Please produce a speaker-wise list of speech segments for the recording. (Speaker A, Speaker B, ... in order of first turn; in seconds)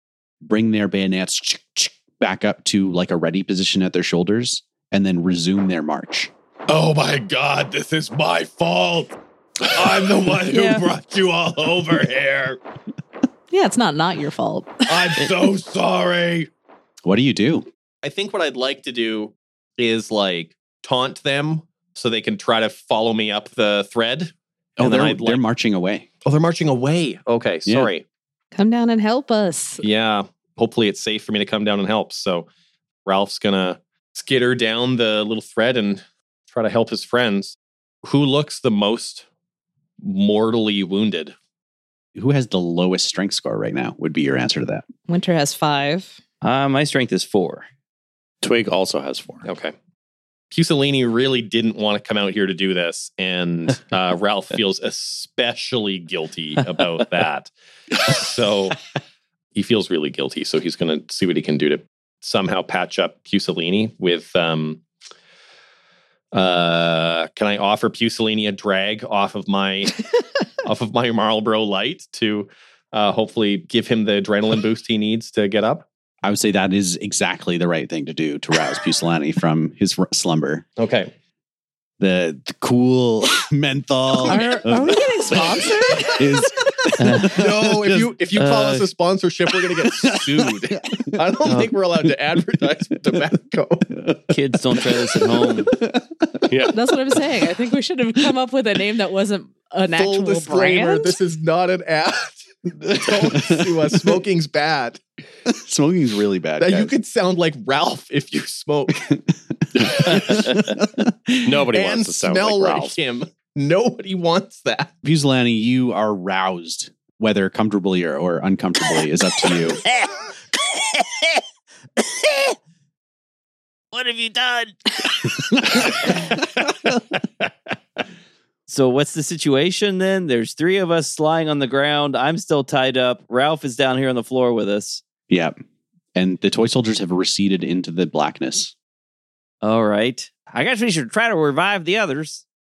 Speaker A: 0.4-6.3, 17.1-17.7, 24.8-26.1, 27.7-27.9, 42.1-44.9, 76.2-80.7, 82.0-88.1, 89.8-91.7, 93.9-96.6, 103.2-104.2, 105.5-106.9, 108.9-111.6, 115.0-119.8, 135.3-135.6, 136.2-138.7
Speaker B: 6.7-9.2, 9.7-12.6, 14.9-16.5
Speaker C: 10.5-10.8, 46.4-47.7, 87.0-87.4, 88.4-88.8, 94.3-95.7, 121.0-121.2, 122.1-122.5, 123.9-124.8, 128.7-135.0, 139.6-142.4
Speaker D: 13.5-15.3, 28.5-29.8, 45.1-46.2, 84.2-86.9, 96.7-101.2
Speaker E: 18.0-25.4, 26.2-28.1, 29.8-32.5, 33.1-39.3, 40.0-41.4, 49.5-49.7, 50.5-58.8, 59.5-64.8, 66.3-70.0, 70.6-75.8, 80.8-81.1, 87.3-93.9, 100.0-105.0, 106.6-109.0, 109.8-110.5, 111.7-114.9
Speaker F: 48.4-49.5, 96.5-96.8, 111.4-113.0